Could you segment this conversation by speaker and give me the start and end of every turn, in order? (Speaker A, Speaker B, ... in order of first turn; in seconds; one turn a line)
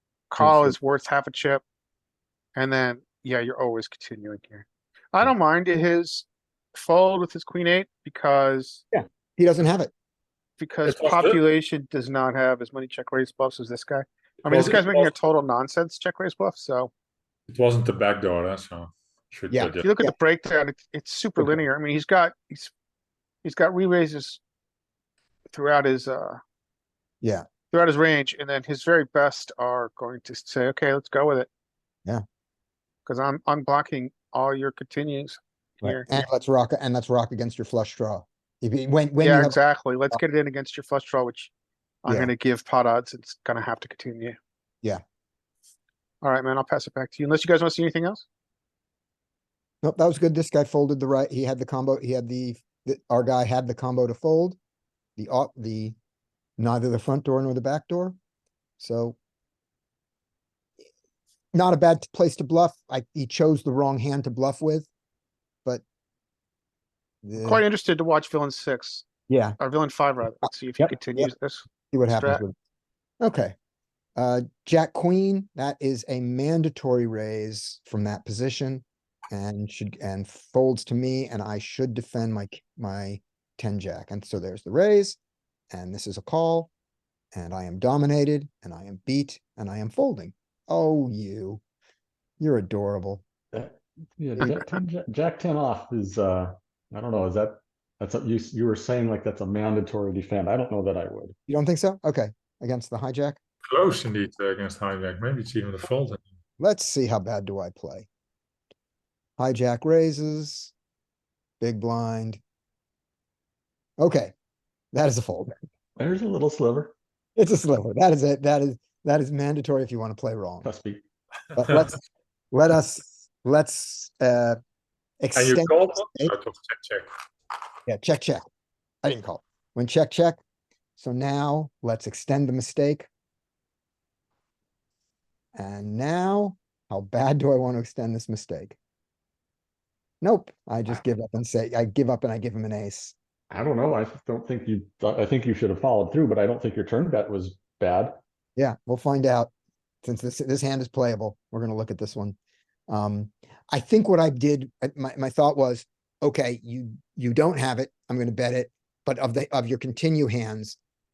Speaker A: 0.3-1.6
Speaker B: 0.4-0.8
Speaker A: 2.5-8.8
Speaker B: 8.9-9.9
Speaker A: 10.6-16.9
Speaker C: 10.8-11.4
Speaker C: 14.5-15.1
Speaker C: 17.5-19.9
Speaker B: 19.5-20.1
Speaker A: 19.8-22.7
Speaker A: 23.4-24.4
Speaker A: 25.5-26.4
Speaker B: 27.2-27.5
Speaker A: 27.7-31.5
Speaker A: 33.1-36.2
Speaker B: 35.8-39.6
Speaker A: 39.2-41.5
Speaker A: 42.0-44.4
Speaker B: 42.1-42.3
Speaker A: 46.2-48.3
Speaker B: 49.8-54.6
Speaker B: 55.2-56.0
Speaker B: 56.6-58.2
Speaker B: 58.8-59.2
Speaker B: 61.5-64.9
Speaker B: 67.2-67.6
Speaker A: 67.4-69.1
Speaker B: 69.3-69.6
Speaker A: 69.6-72.4
Speaker B: 70.4-71.3
Speaker B: 71.9-72.5
Speaker B: 73.2-73.5
Speaker B: 74.2-85.2
Speaker B: 85.7-86.7
Speaker B: 87.3-91.6
Speaker B: 92.4-93.2
Speaker D: 93.5-101.3
Speaker B: 94.4-94.7
Speaker B: 101.5-103.4
Speaker C: 103.7-106.2
Speaker B: 106.6-108.1
Speaker B: 109.4-110.7
Speaker B: 111.6-112.4
Speaker B: 114.0-114.3
Speaker B: 114.9-115.5
Speaker D: 116.0-116.9
Speaker B: 117.4-120.7
Speaker D: 120.6-121.0
Speaker B: 121.6-122.0
Speaker B: 122.5-124.6
Speaker B: 125.2-126.3
Speaker C: 125.3-127.1
Speaker B: 127.9-128.4
Speaker B: 129.0-130.4
Speaker B: 131.0-133.1
Speaker B: 135.6-138.8
Speaker B: 140.2-143.2
Speaker D: 143.5-148.2
Speaker B: 148.6-149.5
Speaker B: 150.0-152.4
Speaker B: 152.9-160.8